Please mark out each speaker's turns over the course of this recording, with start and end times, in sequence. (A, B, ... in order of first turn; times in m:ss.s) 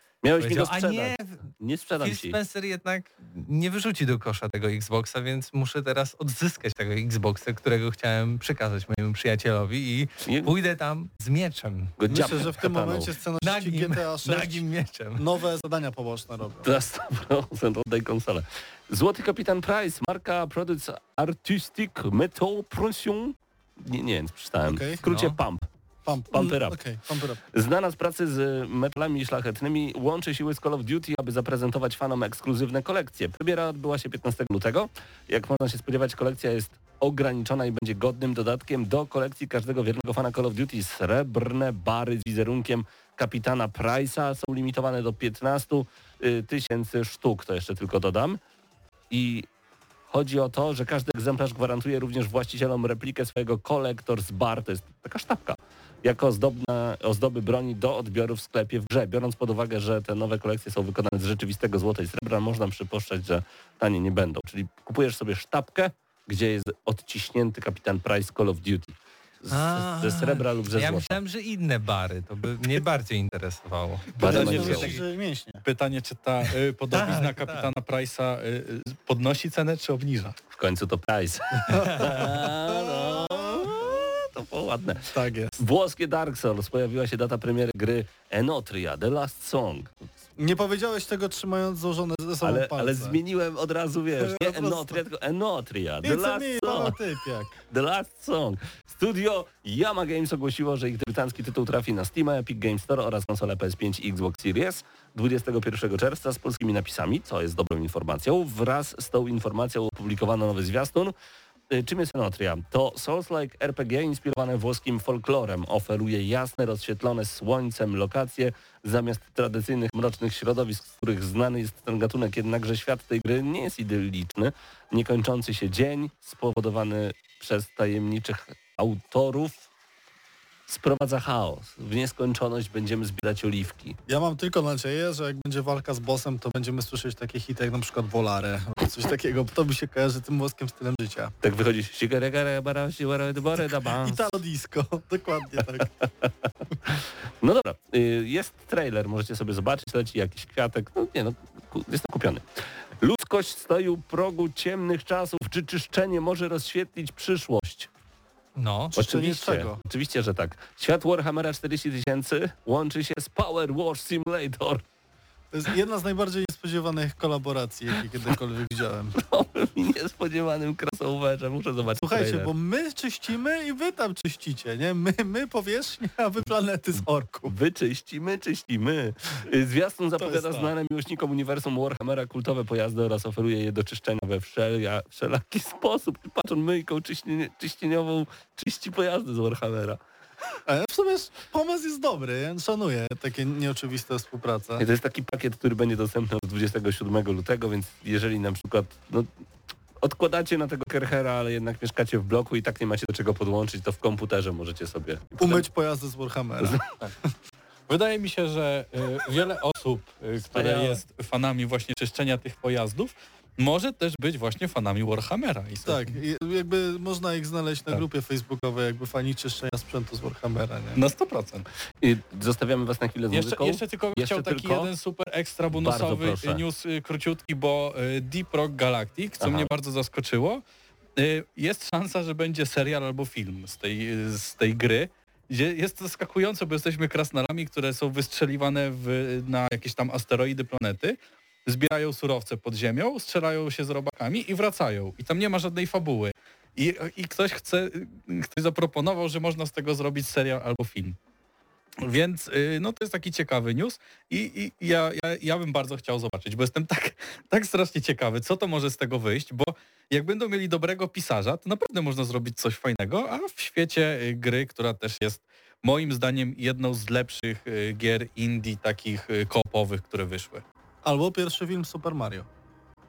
0:00.2-0:02.4 A
0:00.4-0:01.5 B
0:02.0-0:12.0 B
0:10.2-0:10.5 A
0:12.0-0:13.1 A
0:12.1-0:16.7 C
0:13.4-0:15.3 B
0:16.6-0:25.6 A
0:24.6-0:25.0 C
0:25.0-0:25.4 B
0:26.0-0:27.4 C
0:26.3-0:26.8 A
0:27.5-0:48.4 A
0:49.1-0:49.5 A
0:50.1-1:11.2 A
1:09.5-1:15.0 B
1:14.2-1:15.0 A
1:14.2-1:15.6 C
1:14.2-1:15.0 D
1:15.6-1:20.4 D
1:16.9-1:17.7 B
1:20.5-1:29.9 A
1:22.2-1:24.2 C
1:25.1-1:25.6 C
1:30.4-1:33.2 C
1:32.4-1:37.0 A
1:34.2-1:35.0 C
1:36.0-1:37.6 C
1:37.7-1:51.1 A
1:51.7-2:09.7 A
2:10.7-2:14.0 A
2:14.1-2:21.3 C
2:21.4-2:24.4 A
2:23.8-2:25.9 C
2:26.0-2:26.3 A
2:26.8-2:32.4 A
2:33.0-2:37.9 A
2:38.6-2:39.0 B
2:38.9-2:39.8 C
2:39.0-2:44.8 A
2:45.5-2:49.2 C
2:49.2-2:52.5 A
2:52.0-2:57.5 C
2:57.5-3:10.0 A
3:00.3-3:00.6 D
3:10.7-3:14.8 C
3:14.8-3:19.3 A
3:20.0-3:25.6 A
3:25.4-3:27.3 C
3:26.6-3:26.9 A
3:27.9-3:36.1 D
3:30.5-3:31.0 A
3:35.8-3:41.0 C
3:40.9-3:41.7 D
3:42.0-3:44.9 A
3:43.3-3:50.6 D
3:45.7-3:46.6 A
3:49.4-3:49.7 A
3:51.2-4:11.2 D
4:12.0-4:30.6 D
4:31.0-4:32.5 C